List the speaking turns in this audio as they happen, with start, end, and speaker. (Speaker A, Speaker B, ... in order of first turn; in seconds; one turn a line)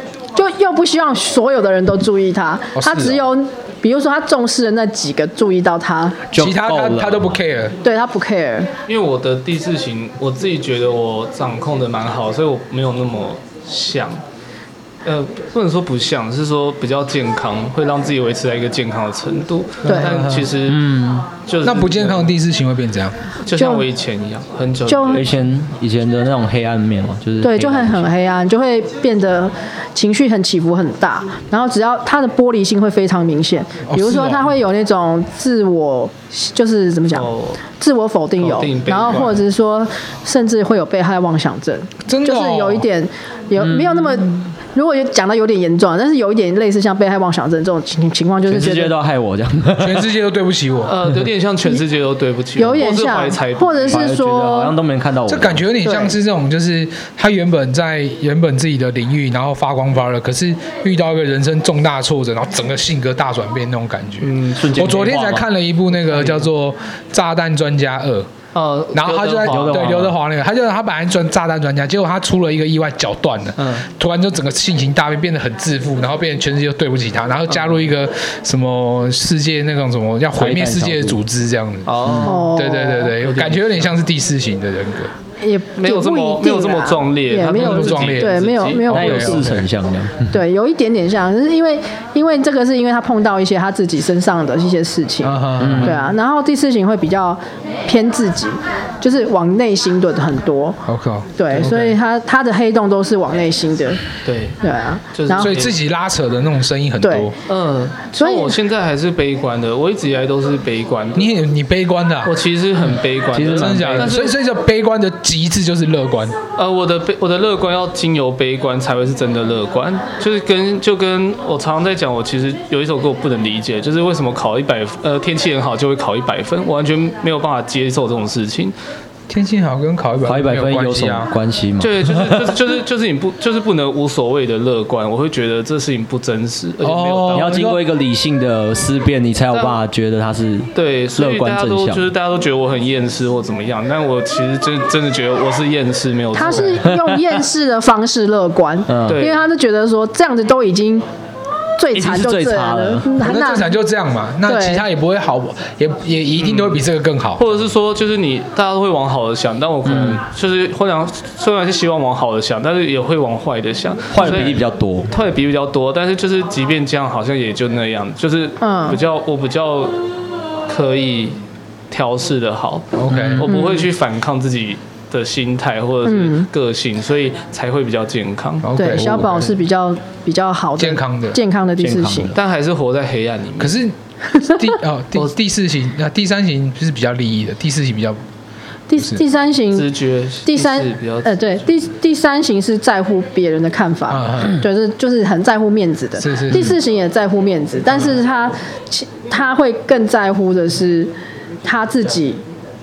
Speaker A: 0.3-6.2
Speaker B: 2.7-3.3
Speaker C: 6.3-7.4
Speaker B: 6.3-7.8
Speaker A: 7.8-8.7
Speaker D: 8.9-14.2
Speaker D: 15.0-20.8
Speaker B: 19.8-20.5
Speaker A: 19.9-20.1
Speaker C: 20.6-21.3
Speaker D: 21.4-22.3
Speaker B: 21.6-23.2
Speaker D: 23.4-25.3
Speaker A: 23.6-23.9
Speaker A: 24.9-25.2
Speaker C: 25.1-28.1
Speaker A: 27.4-49.0
Speaker B: 33.9-34.5
Speaker D: 37.1-37.6
Speaker D: 38.4-39.4
Speaker B: 42.1-42.9
Speaker C: 43.6-44.0
Speaker C: 48.5-50.1
Speaker B: 49.8-51.0
Speaker D: 50.9-54.2
Speaker A: 52.6-54.7
Speaker C: 53.9-55.6
Speaker B: 55.3-68.3
Speaker A: 55.8-56.1
Speaker D: 64.2-64.6
Speaker C: 64.4-65.5
Speaker D: 66.1-66.4
Speaker D: 68.5-70.1
Speaker B: 68.9-85.1
Speaker C: 69.5-70.2
Speaker D: 73.6-73.8
Speaker C: 80.4-81.2
Speaker D: 81.9-82.6
Speaker C: 82.0-82.3
Speaker A: 82.2-83.1
Speaker D: 83.2-83.8
Speaker A: 85.4-89.5
Speaker D: 85.8-88.9
Speaker B: 87.5-89.7
Speaker C: 88.9-90.3
Speaker A: 90.3-100.8
Speaker B: 95.2-96.0
Speaker C: 95.6-96.0
Speaker B: 100.9-102.0
Speaker A: 101.4-104.0
Speaker D: 104.2-104.6
Speaker A: 104.6-105.6
Speaker D: 105.2-105.8
Speaker B: 105.4-107.3
Speaker A: 107.0-107.3
Speaker D: 107.5-111.4
Speaker A: 108.2-108.6
Speaker B: 111.2-112.4
Speaker D: 112.2-114.3
Speaker C: 113.3-114.1
Speaker B: 113.4-116.4
Speaker D: 116.6-128.7
Speaker B: 129.3-131.3
Speaker C: 130.2-132.1
Speaker D: 131.8-137.7
Speaker B: 136.8-137.8
Speaker C: 137.3-142.1
Speaker D: 139.5-139.8
Speaker D: 140.8-146.8
Speaker A: 146.3-151.1
Speaker B: 146.4-146.8
Speaker C: 146.8-147.2
Speaker C: 148.9-149.2
Speaker D: 149.1-149.4
Speaker A: 151.8-153.7
Speaker C: 151.9-153.2
Speaker B: 153.2-157.6
Speaker A: 154.5-154.9
Speaker D: 156.4-156.8
Speaker D: 157.4-170.0
Speaker C: 159.8-160.2
Speaker C: 164.1-165.1
Speaker A: 168.6-169.0
Speaker D: 170.7-171.4
Speaker D: 171.9-178.7
Speaker B: 172.9-173.5
Speaker C: 173.1-173.4
Speaker A: 173.4-173.9
Speaker A: 176.1-176.5
Speaker B: 178.6-179.6
Speaker A: 178.8-182.4
Speaker B: 180.8-181.4
Speaker C: 181.8-182.4
Speaker D: 182.3-183.8
Speaker B: 183.6-188.2
Speaker A: 184.3-184.7
Speaker A: 188.9-189.9
Speaker B: 188.9-189.2
Speaker D: 189.7-191.6
Speaker A: 190.4-201.1
Speaker B: 194.1-194.6
Speaker B: 196.2-196.8
Speaker A: 201.6-202.4